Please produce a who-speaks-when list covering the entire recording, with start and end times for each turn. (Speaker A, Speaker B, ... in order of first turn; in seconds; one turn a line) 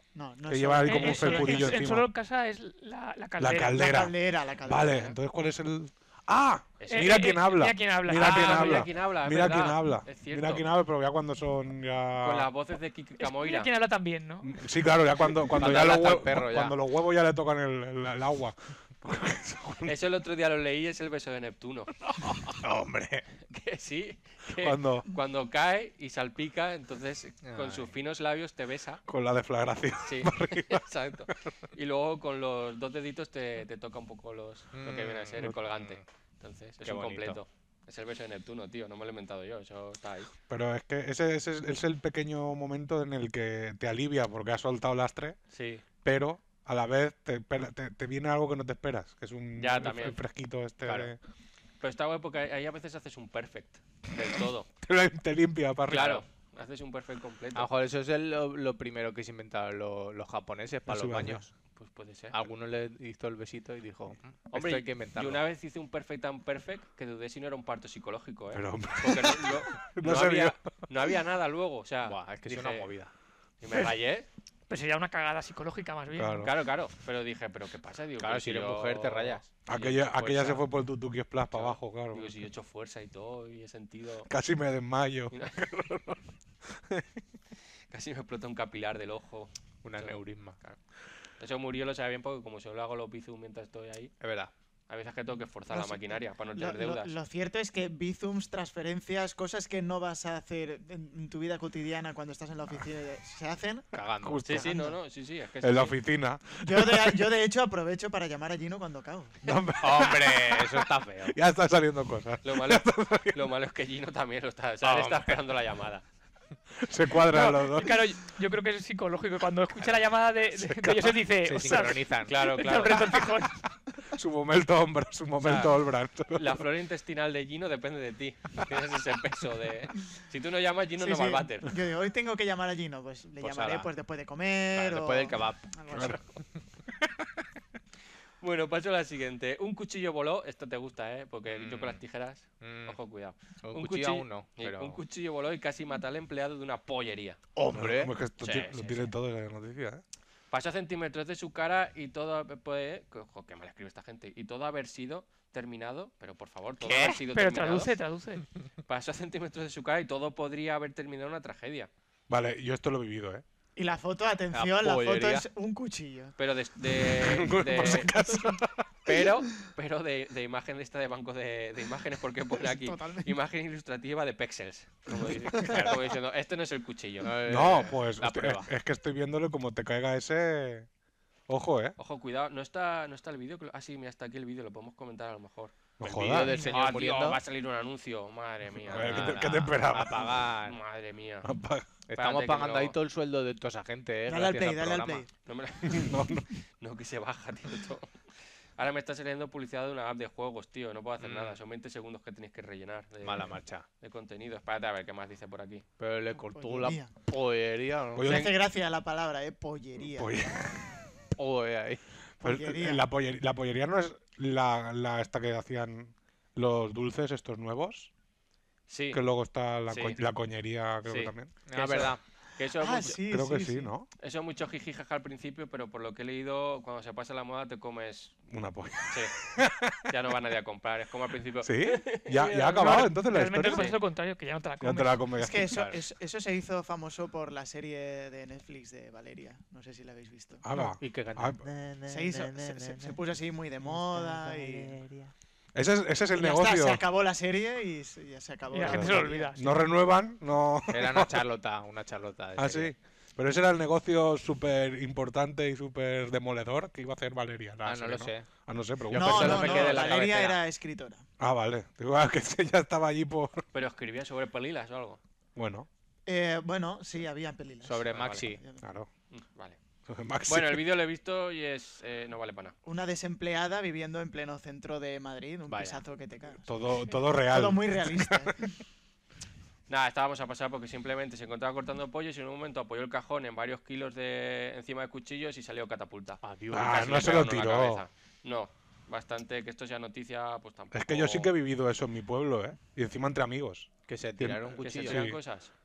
Speaker A: 0.1-1.8
Speaker B: 0.5-2.1
Speaker C: 0.8-4.0
Speaker B: 3.4-12.5
Speaker A: 3.7-5.2
Speaker D: 6.8-7.4
Speaker C: 6.9-8.9
Speaker D: 8.1-10.6
Speaker D: 12.2-13.7
Speaker C: 13.2-14.6
Speaker B: 14.4-19.9
Speaker D: 15.6-16.1
Speaker E: 15.6-16.8
Speaker D: 19.8-21.9
Speaker E: 22.2-23.2
Speaker D: 23.5-29.0
Speaker B: 24.6-25.1
Speaker E: 27.4-27.9
Speaker B: 29.1-30.8
Speaker D: 30.0-40.3
Speaker E: 34.7-36.0
Speaker E: 36.8-37.4
Speaker B: 40.5-45.4
Speaker D: 45.5-45.8
Speaker B: 46.0-51.2
Speaker D: 49.6-50.2
Speaker E: 50.9-51.1
Speaker D: 51.8-54.7
Speaker B: 54.8-56.2
Speaker D: 55.9-57.7
Speaker E: 57.5-61.5
Speaker B: 60.9-61.4
Speaker D: 61.8-62.3
Speaker E: 62.3-65.4
Speaker D: 64.5-72.9
Speaker B: 68.5-70.7
Speaker E: 72.0-73.1
Speaker D: 73.6-74.3
Speaker C: 74.7-76.5
Speaker B: 76.2-76.5
Speaker D: 76.4-80.7
Speaker E: 78.2-79.4
Speaker B: 79.7-82.3
Speaker D: 81.5-84.3
Speaker B: 84.3-86.2
Speaker D: 85.3-86.0
Speaker B: 86.7-87.2
Speaker D: 87.9-90.8
Speaker E: 89.8-90.6
Speaker D: 91.4-94.1
Speaker E: 94.2-94.5
Speaker D: 94.9-97.1
Speaker A: 95.7-103.9
Speaker E: 103.9-104.5
Speaker B: 104.2-104.7
Speaker D: 104.4-106.0
Speaker A: 104.5-105.0
Speaker B: 105.6-107.3
Speaker A: 106.6-109.4
Speaker B: 109.4-113.4
Speaker E: 109.8-111.3
Speaker D: 112.4-116.0
Speaker E: 114.8-115.4
Speaker B: 116.8-118.0
Speaker C: 117.3-123.6
Speaker B: 120.6-121.2
Speaker E: 121.4-122.8
Speaker D: 122.2-123.2
Speaker B: 124.1-126.7
Speaker D: 125.4-125.7
Speaker D: 126.3-131.7
Speaker A: 131.0-136.2
Speaker E: 133.4-133.9
Speaker E: 134.7-136.2
Speaker B: 135.9-136.2
Speaker D: 138.4-147.4
Speaker E: 141.5-142.0
Speaker E: 142.6-143.0
Speaker E: 143.6-145.0
Speaker E: 147.6-148.1
Speaker B: 147.7-150.0
Speaker D: 148.4-149.1
Speaker D: 150.5-157.9
Speaker E: 156.8-157.2
Speaker C: 157.3-158.5
Speaker D: 158.9-161.9
Speaker B: 162.3-163.4
Speaker A: 163.8-166.3
Speaker E: 164.5-165.5
Speaker D: 166.4-168.2
Speaker B: 166.9-168.9
Speaker D: 169.1-177.3
Speaker A: 172.6-173.3
Speaker E: 175.2-176.0
Speaker E: 177.2-178.7
Speaker B: 177.4-180.9
Speaker B: 181.5-181.9
Speaker D: 182.0-185.8
Speaker B: 186.0-186.5
Speaker E: 186.0-187.4
Speaker A: 186.5-186.7
Speaker D: 186.5-189.6
Speaker B: 188.9-190.4
Speaker E: 188.9-190.8
Speaker D: 190.7-191.5
Speaker B: 191.4-191.9
Speaker E: 192.1-195.2
Speaker D: 192.2-192.9
Speaker A: 194.3-195.3
Speaker D: 195.4-196.2
Speaker B: 195.8-196.5
Speaker D: 196.8-198.1
Speaker D: 198.8-205.8
Speaker E: 201.2-201.6
Speaker E: 203.2-203.8
Speaker E: 206.0-208.3
Speaker A: 206.3-207.1
Speaker B: 208.2-208.5
Speaker D: 208.2-208.5
Speaker A: 208.2-210.3
Speaker B: 210.1-211.0
Speaker E: 211.4-212.0
Speaker B: 212.4-218.1
Speaker A: 212.4-213.1
Speaker D: 218.9-219.2
Speaker B: 219.1-221.5
Speaker D: 219.9-220.2
Speaker D: 221.1-223.2
Speaker E: 221.7-222.2
Speaker A: 222.7-223.9
Speaker B: 223.2-224.1
Speaker D: 224.2-228.4
Speaker B: 228.5-230.1
Speaker D: 229.1-229.3
Speaker D: 230.1-233.1
Speaker B: 231.6-233.9
Speaker C: 232.7-235.2
Speaker D: 233.6-234.0
Speaker B: 234.8-235.8
Speaker A: 235.3-240.6
Speaker E: 235.7-236.0
Speaker B: 240.6-241.6
Speaker E: 241.0-243.2
Speaker A: 242.1-245.0
Speaker E: 243.8-245.3
Speaker B: 245.7-247.0
Speaker A: 246.3-249.7
Speaker C: 248.7-249.7
Speaker B: 248.8-251.4
Speaker E: 250.9-252.9
Speaker B: 252.6-260.2
Speaker E: 257.8-258.5
Speaker E: 259.0-260.6
Speaker A: 259.1-261.2
Speaker B: 261.4-263.6
Speaker D: 263.7-265.2
Speaker B: 265.6-265.9
Speaker A: 266.2-268.8
Speaker E: 267.8-268.6
Speaker D: 268.1-268.4
Speaker B: 268.8-269.1
Speaker D: 269.3-269.8
Speaker B: 270.1-270.8
Speaker D: 270.5-272.7
Speaker A: 272.9-278.8
Speaker E: 275.7-276.0
Speaker B: 276.7-278.5
Speaker D: 279.9-291.5
Speaker E: 286.4-287.3
Speaker B: 286.7-288.0
Speaker B: 290.9-295.4
Speaker E: 294.1-295.2
Speaker D: 294.8-295.7